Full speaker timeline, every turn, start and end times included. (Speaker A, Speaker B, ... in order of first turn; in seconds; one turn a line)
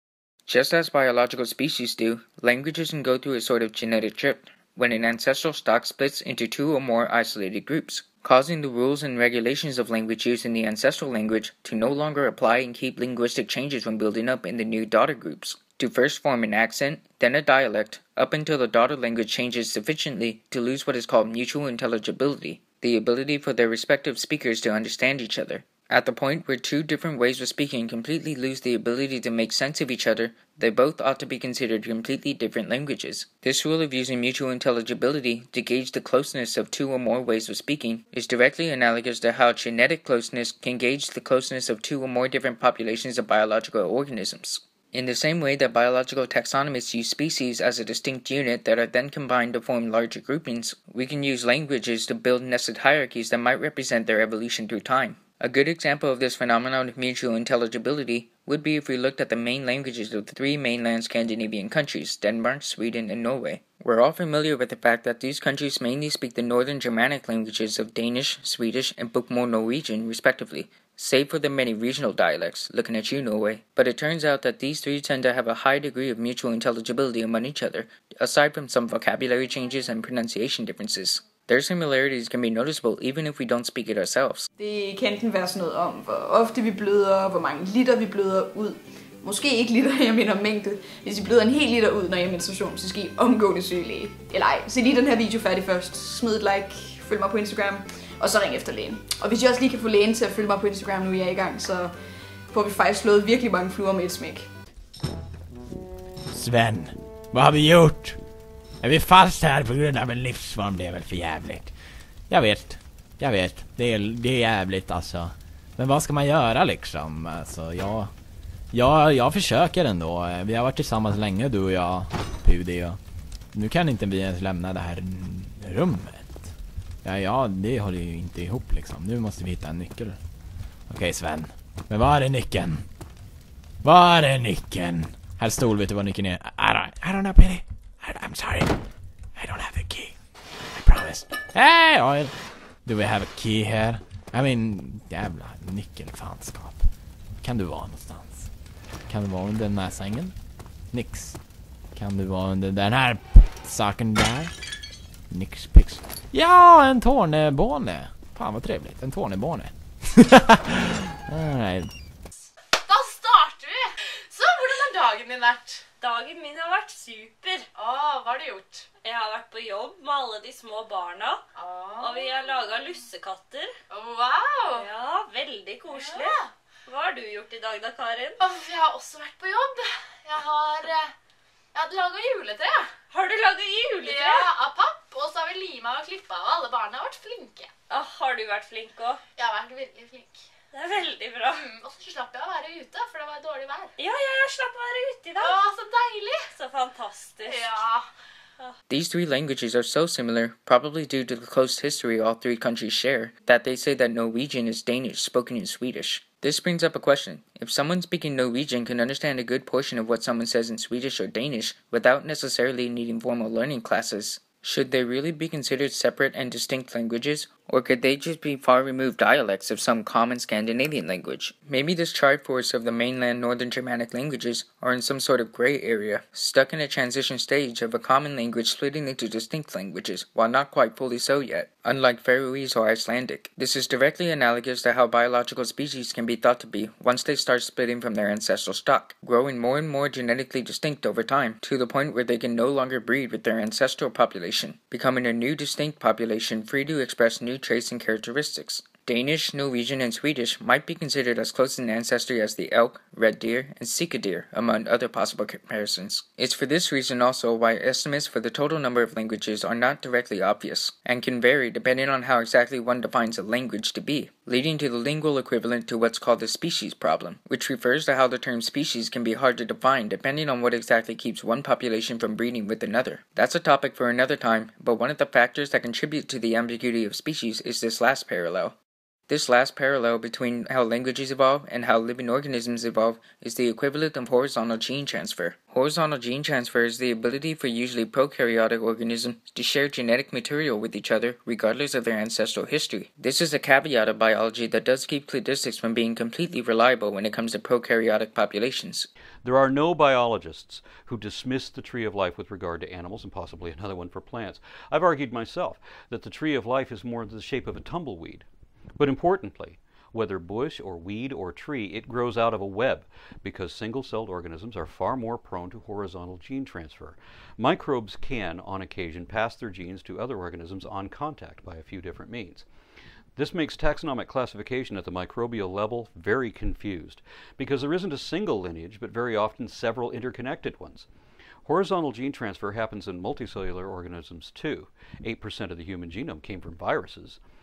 Speaker A: 0.5-84.5
Speaker B: 84.6-104.5
Speaker C: 106.3-108.2
Speaker C: 108.8-111.7
Speaker C: 112.3-118.1
Speaker C: 118.7-123.0
Speaker C: 123.5-130.2
Speaker C: 130.9-132.9
Speaker C: 133.8-138.8
Speaker C: 139.3-140.2
Speaker C: 140.7-146.9
Speaker C: 147.4-148.5
Speaker C: 149.1-150.3
Speaker C: 150.9-154.5
Speaker C: 155.3-161.9
Speaker D: 162.8-165.8
Speaker E: 166.0-167.7
Speaker D: 167.7-168.9
Speaker E: 169.0-171.4
Speaker D: 171.5-172.3
Speaker E: 172.0-173.7
Speaker D: 173.9-174.9
Speaker E: 174.7-178.4
Speaker D: 175.9-176.5
Speaker D: 178.4-181.1
Speaker D: 181.7-182.9
Speaker E: 183.1-184.5
Speaker D: 184.1-187.7
Speaker E: 187.9-189.2
Speaker D: 189.4-190.4
Speaker E: 190.7-191.6
Speaker D: 191.5-193.9
Speaker E: 194.0-195.6
Speaker D: 195.4-196.5
Speaker E: 196.5-197.8
Speaker D: 197.5-198.1
Speaker A: 198.9-278.7
Speaker A: 279.3-299.1
Speaker F: 299.4-308.4
Speaker F: 309.0-322.6
Speaker F: 323.4-331.1
Speaker F: 331.6-337.4